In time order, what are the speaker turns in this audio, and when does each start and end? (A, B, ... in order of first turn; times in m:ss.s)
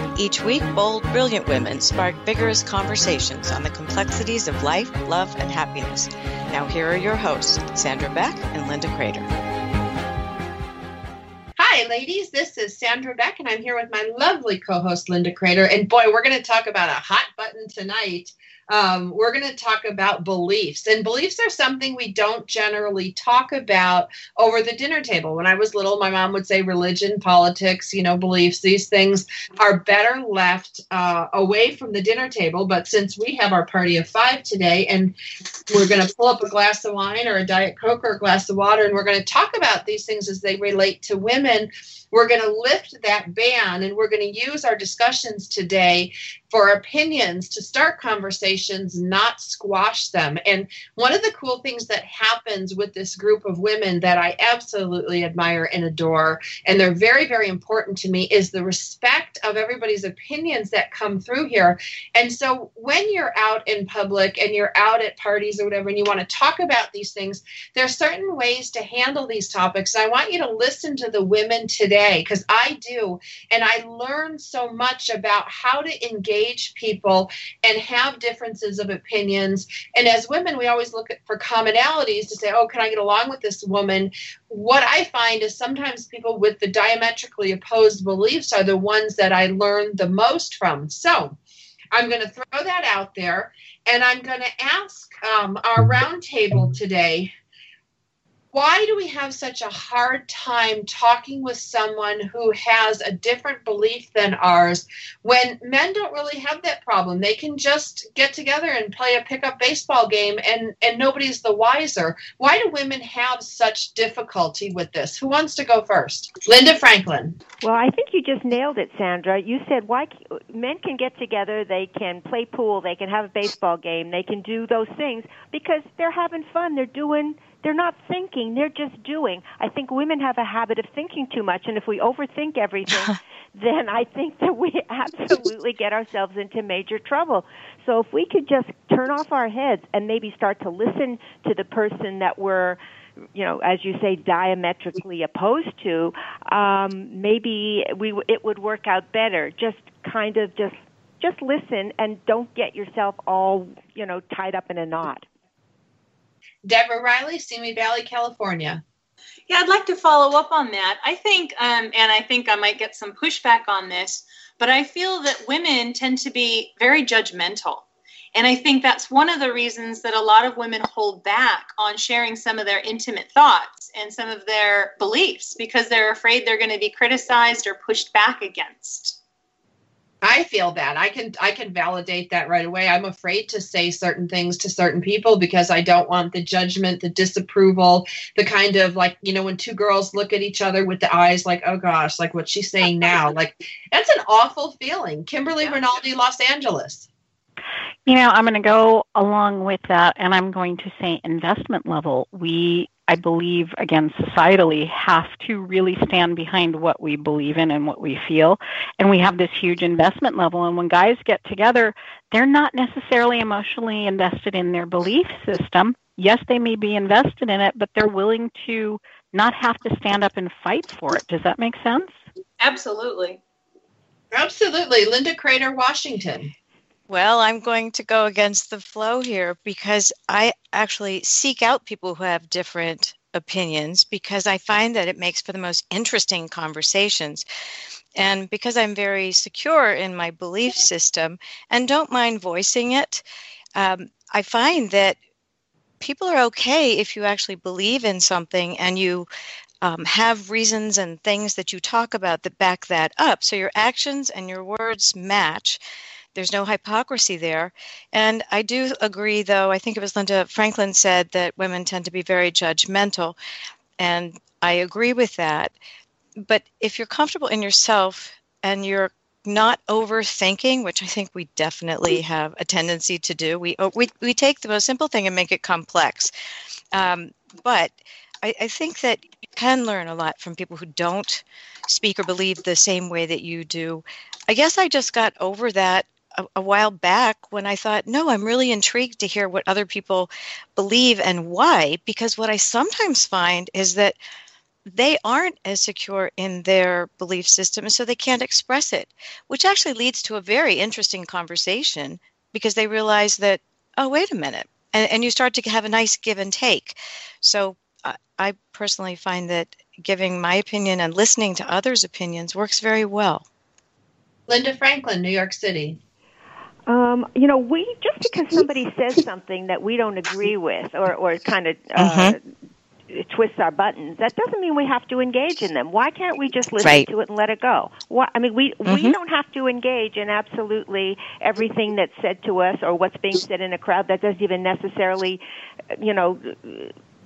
0:00.1-0:09.3 A
0:11.6-0:35.1 B
0:35.7-1:31.4 B
1:31.9-1:37.3 B
1:38.5-1:57.4 B
1:57.6-2:22.8 C
2:23.3-2:35.2 C
2:36.6-2:38.8 B
2:39.5-2:59.2 D
3:00.2-3:17.1 B
3:18.0-3:42.1 E
3:42.6-3:43.4 D
3:44.3-3:46.5 B
3:47.1-3:57.4 A
3:58.2-4:03.2 A
4:03.8-4:05.2 A
4:06.0-4:09.3 A
4:09.8-4:15.8 A
4:16.3-4:23.4 A
4:24.0-4:25.7 A
4:26.4-4:36.3 A
4:36.9-4:54.2 A
4:54.8-5:13.4 A
5:14.5-5:16.0 B
5:16.9-5:22.4 C
5:22.0-5:22.4 A
5:23.1-5:35.4 C
5:28.8-5:29.2 A
5:35.9-5:36.9 C